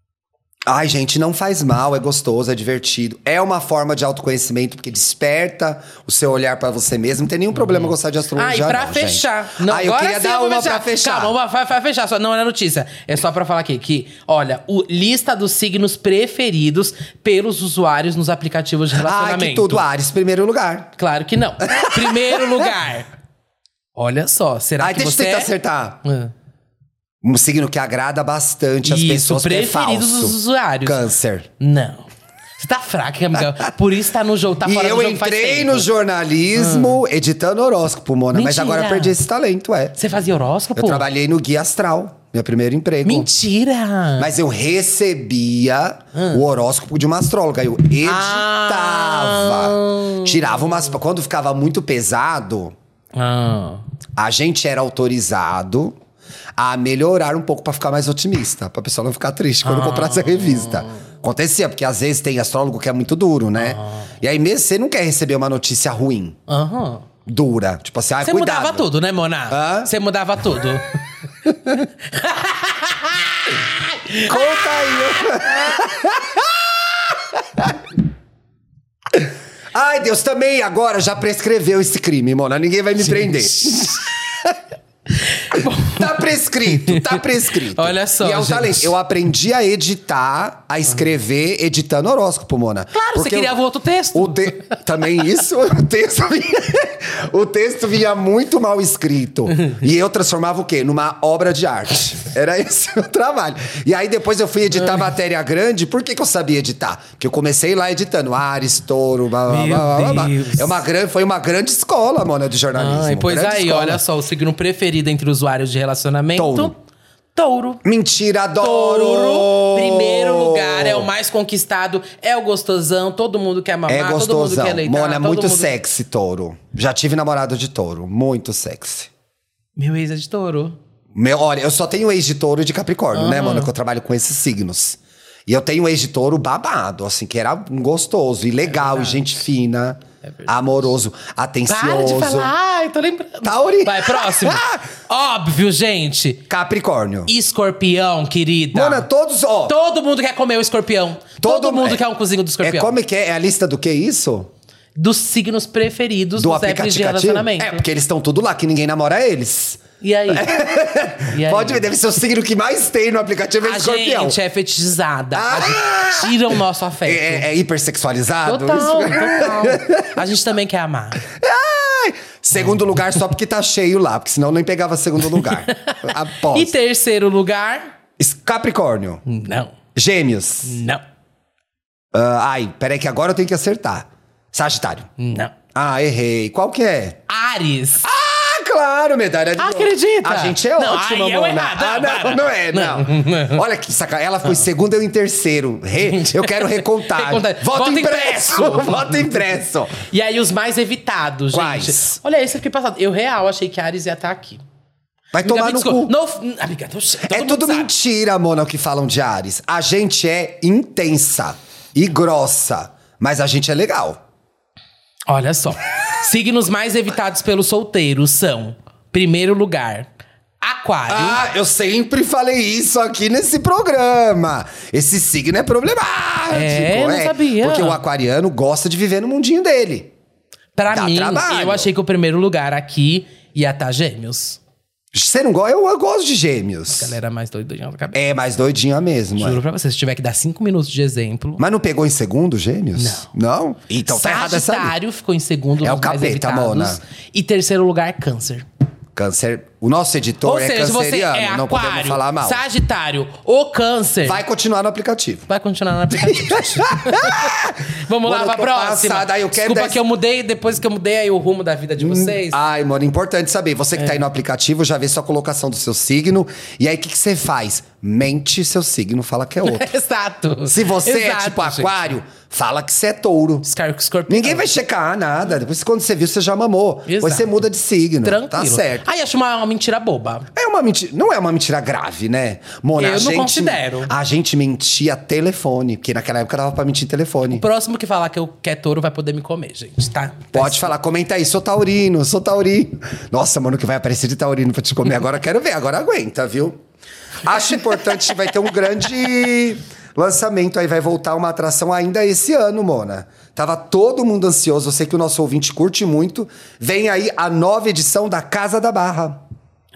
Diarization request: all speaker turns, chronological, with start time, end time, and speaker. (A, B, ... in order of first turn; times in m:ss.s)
0:00.7-0:11.4 A
0:07.6-0:19.8 B
0:18.9-0:20.9 A
0:21.0-0:23.1 B
0:21.6-0:22.7 A
0:24.0-0:25.5 B
0:24.8-0:26.0 A
0:26.0-0:26.3 B
0:27.2-0:31.5 A
0:28.8-0:31.0 B
0:31.6-0:35.9 B
0:33.4-0:33.6 A
0:34.6-0:40.0 A
0:36.6-0:37.0 B
0:38.3-0:39.2 B
0:40.0-0:41.1 B
0:40.8-0:43.3 A
0:43.0-0:44.3 B
0:44.2-0:52.8 A
0:46.2-0:46.4 B
0:48.0-0:50.7 B
0:53.2-0:53.8 B
0:54.2-0:56.0 A
0:56.6-1:06.4 A
0:59.6-1:01.0 B
1:03.6-1:04.1 B
1:06.5-1:07.1 B
1:07.3-1:08.9 A
1:08.2-1:11.0 B
1:09.5-1:09.9 A
1:11.5-1:11.8 A
1:12.0-1:15.7 B
1:14.3-1:17.8 A
1:19.1-1:24.6 A
1:23.5-1:24.0 B
1:25.2-1:29.0 B
1:25.5-1:33.6 A
1:32.9-1:34.8 B
1:34.1-1:54.0 A
1:49.5-1:50.8 B
1:52.8-1:56.7 B
1:56.4-1:56.7 A
1:57.4-1:57.8 B
1:57.8-2:01.1 A
1:58.6-2:05.8 B
2:03.9-2:09.1 A
2:09.8-2:10.8 B
2:11.2-2:22.5 A
2:13.1-2:13.7 B
2:18.7-2:19.3 B
2:20.2-2:20.5 B
2:21.7-2:26.4 B
2:23.4-2:24.9 A
2:26.5-2:27.3 A
2:27.3-2:29.1 B
2:28.7-2:29.8 A
2:29.7-2:33.0 B
2:31.4-2:32.0 A
2:32.6-2:34.5 A
2:35.0-2:37.8 B
2:36.4-2:44.4 A
2:40.0-2:40.6 B
2:41.3-2:41.9 B
2:43.6-2:47.5 B
2:45.3-2:50.2 A
2:48.4-2:51.2 B
2:51.2-2:56.8 A
2:52.5-2:52.8 B
2:55.3-2:57.9 B
2:58.2-2:59.2 A
2:59.3-2:59.8 B
3:00.0-3:00.8 A
3:00.6-3:01.0 B
3:02.1-3:05.1 A
3:05.2-3:05.5 B
3:05.7-3:07.2 A
3:07.3-3:08.1 B
3:08.0-3:20.0 A
3:09.6-3:13.6 B
3:16.0-3:19.4 B
3:20.0-3:24.6 B
3:21.5-3:22.2 A
3:25.3-3:26.1 A
3:25.4-3:27.9 B
3:27.3-3:34.2 A
3:35.3-3:40.1 B
3:40.6-3:41.4 B
3:41.1-3:50.1 A
3:46.5-3:48.0 B
3:50.8-3:54.6 B
3:50.9-3:51.9 A
3:55.1-3:57.1 A
3:56.9-3:58.2 B
3:58.1-3:59.6 A
3:59.4-4:01.6 B
4:01.6-4:04.9 A
4:03.0-4:03.3 B
4:04.1-4:08.7 B
4:05.8-4:07.0 A
4:09.2-4:12.6 A
4:10.4-4:14.4 B
4:14.2-4:15.5 A
4:15.5-4:22.6 B
4:16.1-4:20.0 A
4:22.0-4:29.9 A
4:29.6-4:32.1 B
4:30.7-4:33.7 A
4:33.6-4:34.7 B
4:34.3-4:39.1 A
4:37.1-4:37.5 B
4:38.2-4:40.5 B
4:40.5-4:47.6 A
4:43.0-4:44.1 B
4:47.5-4:50.9 B
4:50.5-4:56.8 A
4:57.4-5:09.4 A